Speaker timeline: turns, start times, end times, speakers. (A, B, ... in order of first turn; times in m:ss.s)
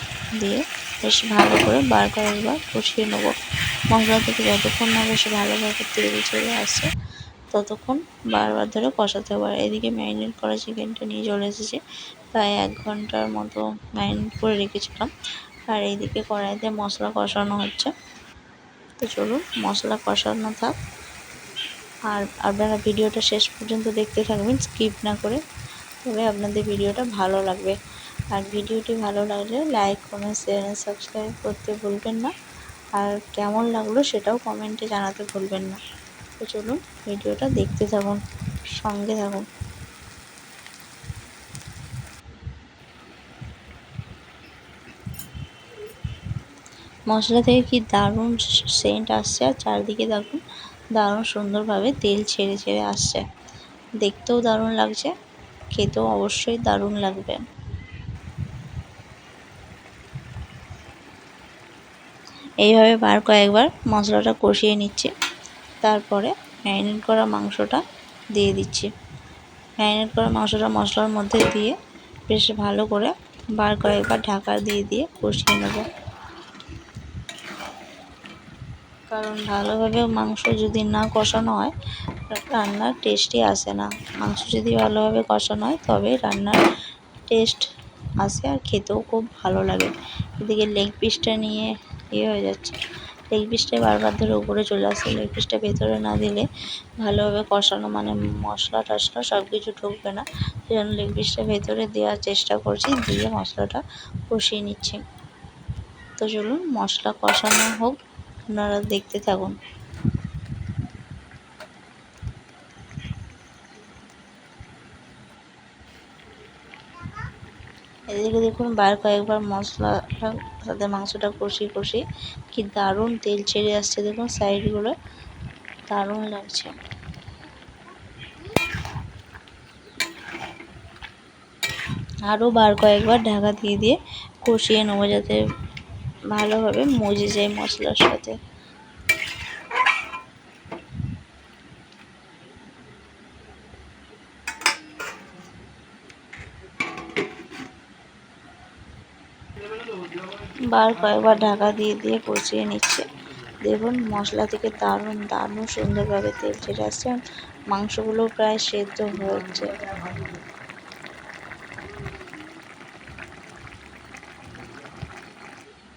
0:00.4-0:03.3 A
0:03.9-0:06.9 A
0:07.5-0:11.8 A
0:12.3-0:15.1 A
0:15.7-0:17.9 A
0:19.0-0:20.8 A
0:22.1-0:25.4 A
0:26.0-0:27.8 A
0:28.3-0:32.3 A
0:33.0-0:35.8 A
0:36.4-0:38.2 A
0:38.8-0:39.5 A
0:47.1-0:50.4 A
0:51.0-0:53.2 A
0:54.0-0:55.1 A
0:55.7-0:57.5 A
1:02.6-1:05.1 A
1:05.8-1:07.8 A
1:08.4-1:08.9 A
1:09.8-1:11.8 A
1:12.3-1:15.9 A
1:19.1-1:21.7 A
1:22.3-1:26.6 A
1:27.3-1:27.7 A
1:28.2-1:32.8 A
1:33.3-1:36.5 A
1:37.0-1:45.0 A
1:46.2-1:48.0 A
1:48.5-1:49.6 A
1:58.1-2:05.0 A
2:05.9-2:06.8 A
2:12.3-2:15.4 A
2:16.3-2:18.4 A
2:30.7-2:33.0 A
2:33.6-2:37.2 A
2:37.7-2:39.7 A